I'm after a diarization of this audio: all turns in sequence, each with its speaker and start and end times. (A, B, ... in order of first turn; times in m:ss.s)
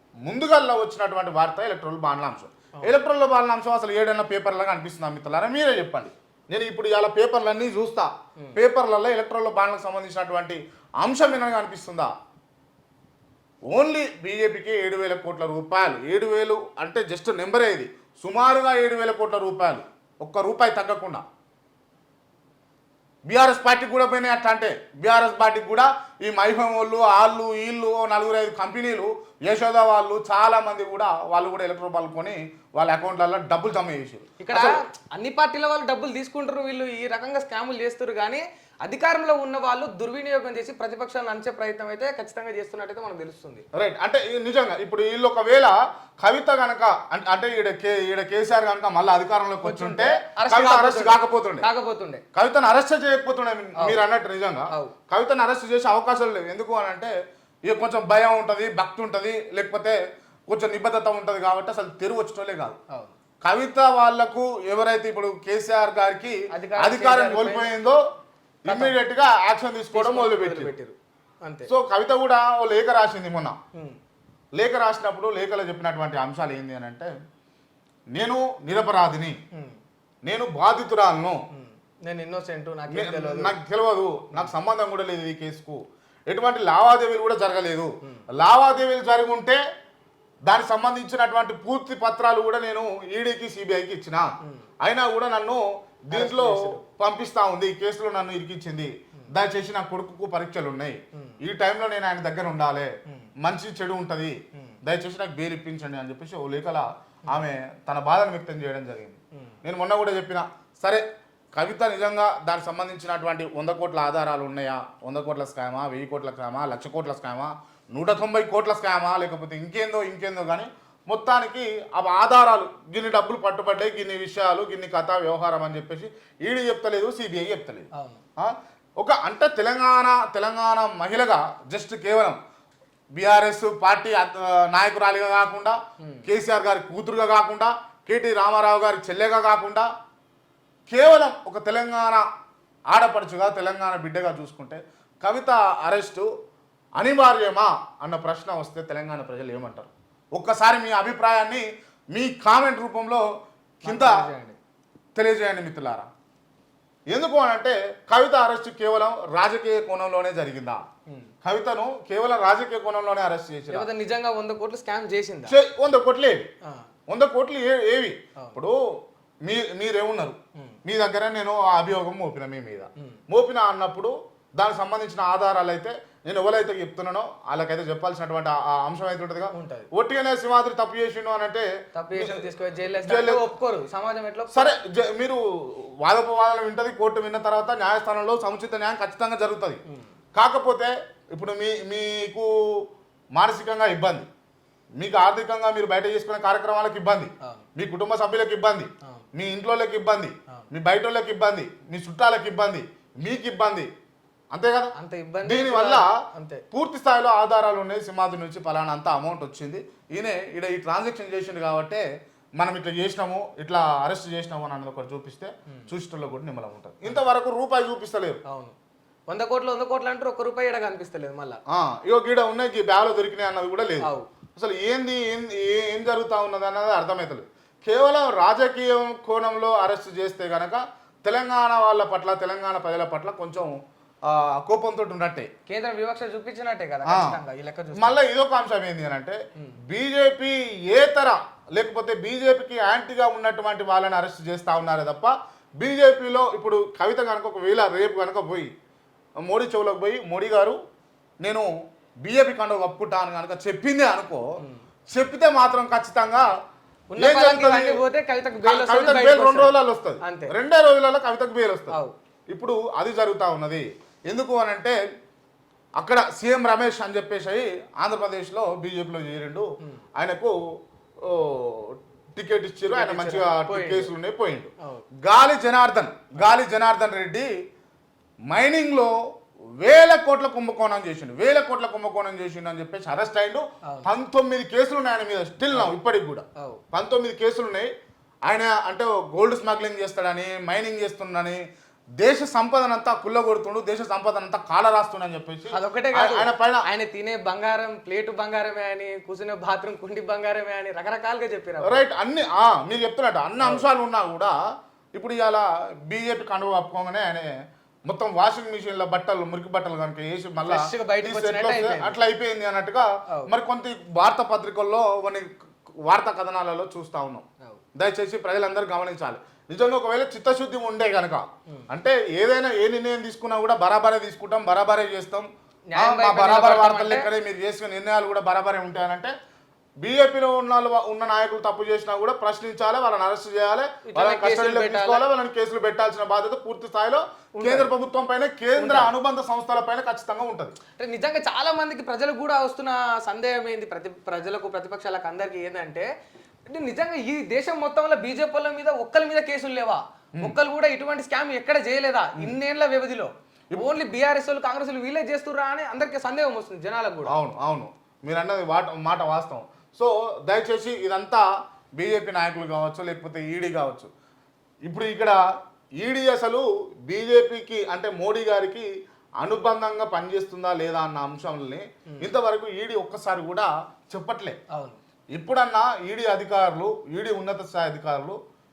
0:00.2-0:12.1 A
0:13.7-0:21.2 A
0:23.3-0:34.8 A
0:34.4-0:43.7 B
0:43.8-0:51.7 A
0:49.6-0:52.2 B
0:52.3-0:57.1 A
0:57.7-1:02.8 A
1:02.9-1:03.1 B
1:03.4-1:08.0 A
1:06.5-1:07.7 B
1:08.6-1:10.7 A
1:08.7-1:09.0 B
1:09.9-1:11.7 B
1:11.7-1:13.6 A
1:13.7-1:14.0 B
1:14.6-1:17.1 A
1:18.2-1:19.4 A
1:19.5-1:19.8 B
1:20.3-1:21.4 A
1:21.5-1:23.6 B
1:22.9-1:29.6 A
1:30.5-1:34.3 A
1:34.8-1:51.0 A
1:36.1-1:36.8 B
1:51.6-2:07.9 A
2:07.9-2:08.2 B
2:08.4-2:12.4 A
2:13.2-2:19.9 A
2:16.0-2:16.3 B
2:20.9-2:22.3 A
2:22.9-2:26.3 A
2:27.0-2:33.2 A
2:33.8-2:34.6 B
2:33.8-2:34.3 A
2:35.2-2:36.1 A
2:37.1-2:40.8 A
2:41.4-2:43.9 A
2:43.7-2:45.6 B
2:45.5-2:46.5 A
2:47.1-2:48.8 A
2:49.4-3:02.4 A
2:59.5-2:59.9 B
3:02.0-3:04.7 B
3:03.0-3:03.4 A
3:04.5-3:09.8 A
3:10.4-3:14.3 A
3:15.0-3:23.9 A
3:24.5-3:24.9 A
3:25.0-3:26.6 B
3:25.4-3:26.1 A
3:26.7-3:32.0 A
3:32.6-3:38.4 A
3:38.5-3:38.8 B
3:39.3-3:41.6 B
3:41.7-3:55.5 A
3:44.0-3:44.3 B
3:55.7-3:58.2 B
3:57.1-3:57.4 A
3:58.0-4:08.7 A
4:09.4-4:10.8 A
4:11.4-4:11.7 A
4:12.2-4:14.4 A
4:15.1-4:16.5 A
4:17.1-4:20.5 B
4:17.2-4:18.0 A
4:18.6-4:22.0 A
4:22.5-4:25.0 A
4:26.0-4:30.5 A
4:31.2-4:34.7 A
4:32.9-4:34.1 B
4:34.8-4:35.1 B
4:35.2-4:37.5 A
4:38.5-4:39.2 A
4:39.8-4:47.9 A
4:48.5-4:51.6 A
4:52.2-4:56.9 A
4:55.7-5:02.0 B
5:01.8-5:04.5 A
5:03.6-5:03.9 B
5:05.2-5:07.5 A
5:08.1-5:15.5 A
5:10.6-5:12.2 B
5:16.1-5:17.4 A
5:18.0-5:29.3 A
5:25.9-5:27.3 B
5:30.0-5:40.8 A
5:34.1-5:35.2 B
5:37.6-5:37.9 B
5:38.8-5:39.1 B
5:41.0-5:46.1 B
5:46.7-5:57.3 B
5:57.3-6:01.5 A
6:02.0-6:04.1 A
6:04.9-6:05.4 A
6:06.0-6:08.9 A
6:09.4-6:14.6 A
6:14.7-6:15.0 B
6:15.4-6:18.4 A